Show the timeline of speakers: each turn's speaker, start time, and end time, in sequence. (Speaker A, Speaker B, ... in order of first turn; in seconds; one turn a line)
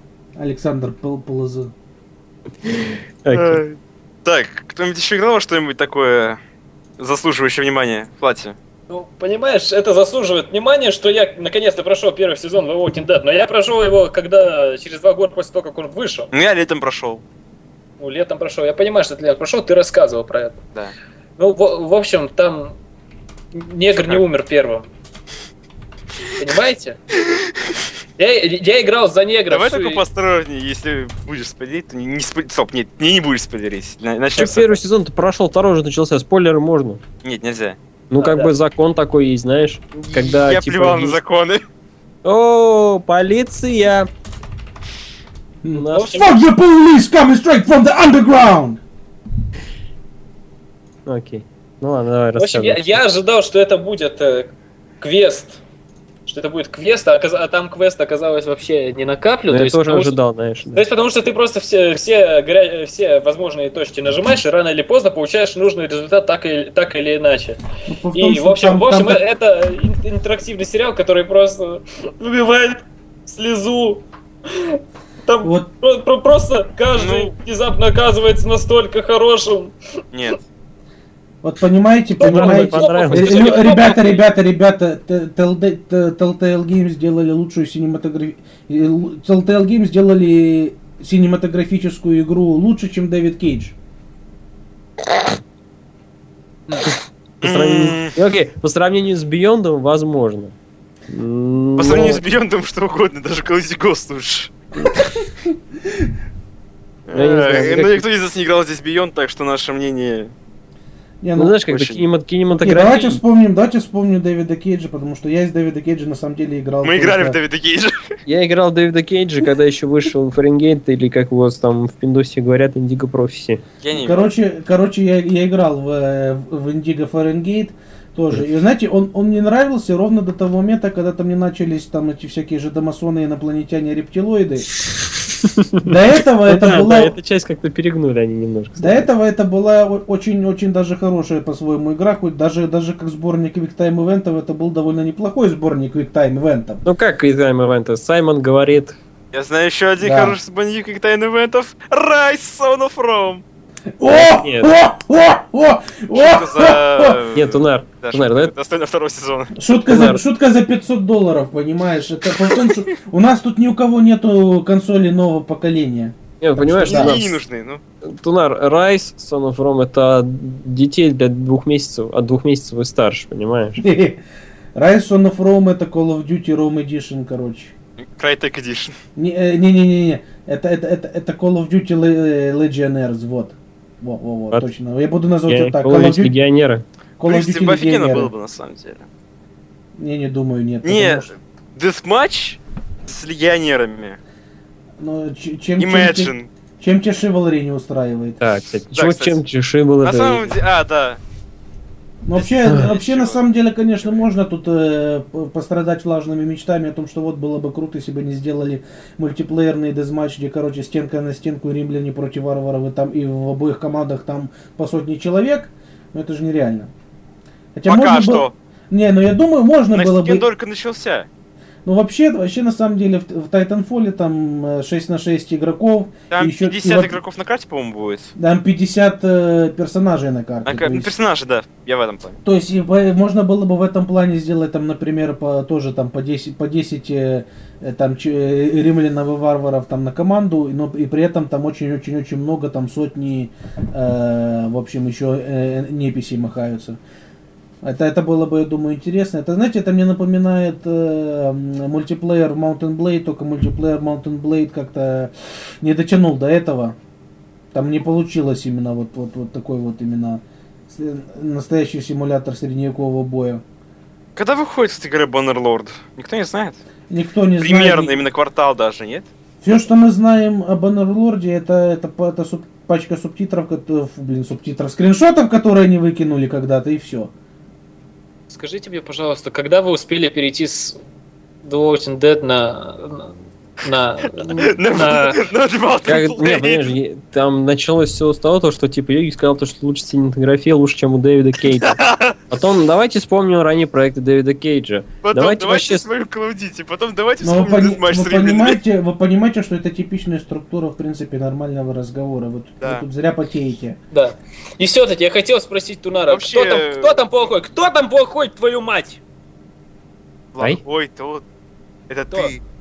Speaker A: 0.4-1.7
Speaker B: 2.6-3.6
Speaker C: 3.3-6.4
Speaker C: 7.0-8.6
Speaker D: 8.9-16.3
Speaker C: 16.3-17.2
Speaker D: 18.0-20.6
Speaker D: 21.4-22.8
Speaker D: 23.5-24.9
Speaker D: 26.4-27.0
Speaker D: 28.2-30.0
Speaker C: 29.5-34.8
Speaker B: 34.4-37.0
Speaker C: 37.2-37.8
Speaker B: 38.1-41.2
Speaker D: 38.2-38.5
Speaker C: 40.0-41.6
Speaker B: 42.2-44.1
Speaker A: 45.6-48.8
Speaker B: 45.7-46.1
Speaker D: 45.9-46.4
Speaker B: 51.1-53.0
Speaker D: 52.4-55.6
Speaker D: 56.3-60.2
Speaker B: 59.5-60.8
Speaker D: 60.7-67.6
Speaker A: 67.9-69.2
Speaker D: 68.1-79.8
Speaker A: 75.4-75.7
Speaker C: 77.0-77.3
Speaker C: 80.1-80.4
Speaker A: 81.4-93.8
Speaker D: 82.2-84.2
Speaker B: 82.2-83.6
Speaker C: 97.4-98.1
Speaker B: 97.4-100.5
Speaker B: 101.1-102.2
Speaker C: 101.8-104.5
Speaker C: 107.1-110.3
Speaker B: 107.1-108.0
Speaker A: 111.2-111.6
Speaker B: 111.4-113.2
Speaker C: 111.7-112.0
Speaker A: 112.6-117.4
Speaker C: 116.8-118.0
Speaker B: 118.3-123.6
Speaker C: 123.8-124.3
Speaker A: 123.9-134.7
Speaker B: 135.4-135.9
Speaker A: 135.8-137.2
Speaker B: 136.5-139.1
Speaker A: 138.8-146.8
Speaker B: 146.8-149.0
Speaker C: 149.3-153.4
Speaker A: 150.0-150.4
Speaker A: 154.0-157.2
Speaker B: 154.1-154.7
Speaker C: 156.1-159.5
Speaker B: 157.3-158.5
Speaker A: 159.5-167.2
Speaker B: 159.9-160.2
Speaker B: 166.4-167.4
Speaker C: 166.8-167.8
Speaker B: 168.1-173.8
Speaker A: 173.8-174.2
Speaker A: 174.8-177.7
Speaker C: 178.0-178.9
Speaker A: 179.2-186.3
Speaker B: 185.5-186.8
Speaker A: 187.2-188.3
Speaker C: 187.2-189.1
Speaker A: 190.0-191.3
Speaker C: 190.8-194.2
Speaker A: 195.0-198.4
Speaker C: 195.8-196.5
Speaker B: 198.4-200.6
Speaker C: 198.9-199.4
Speaker C: 200.0-201.2
Speaker A: 202.2-216.9
Speaker C: 202.3-203.4
Speaker A: 217.8-220.5
Speaker C: 217.9-218.5
Speaker C: 219.9-221.3
Speaker A: 221.8-227.2
Speaker C: 226.3-228.3
Speaker A: 228.3-231.1
Speaker C: 230.7-232.4
Speaker A: 232.4-247.0
Speaker A: 247.8-257.0
Speaker A: 257.7-263.6
Speaker C: 264.4-266.8
Speaker A: 267.1-268.2
Speaker C: 267.6-269.3
Speaker A: 269.6-277.3
Speaker D: 278.5-281.0
Speaker D: 281.6-285.4
Speaker C: 284.5-286.9
Speaker B: 286.1-296.1
Speaker C: 291.8-292.5
Speaker C: 295.2-298.8
Speaker A: 297.4-304.0
Speaker D: 304.1-309.2
Speaker C: 306.3-307.2
Speaker C: 310.5-311.4
Speaker C: 312.1-312.6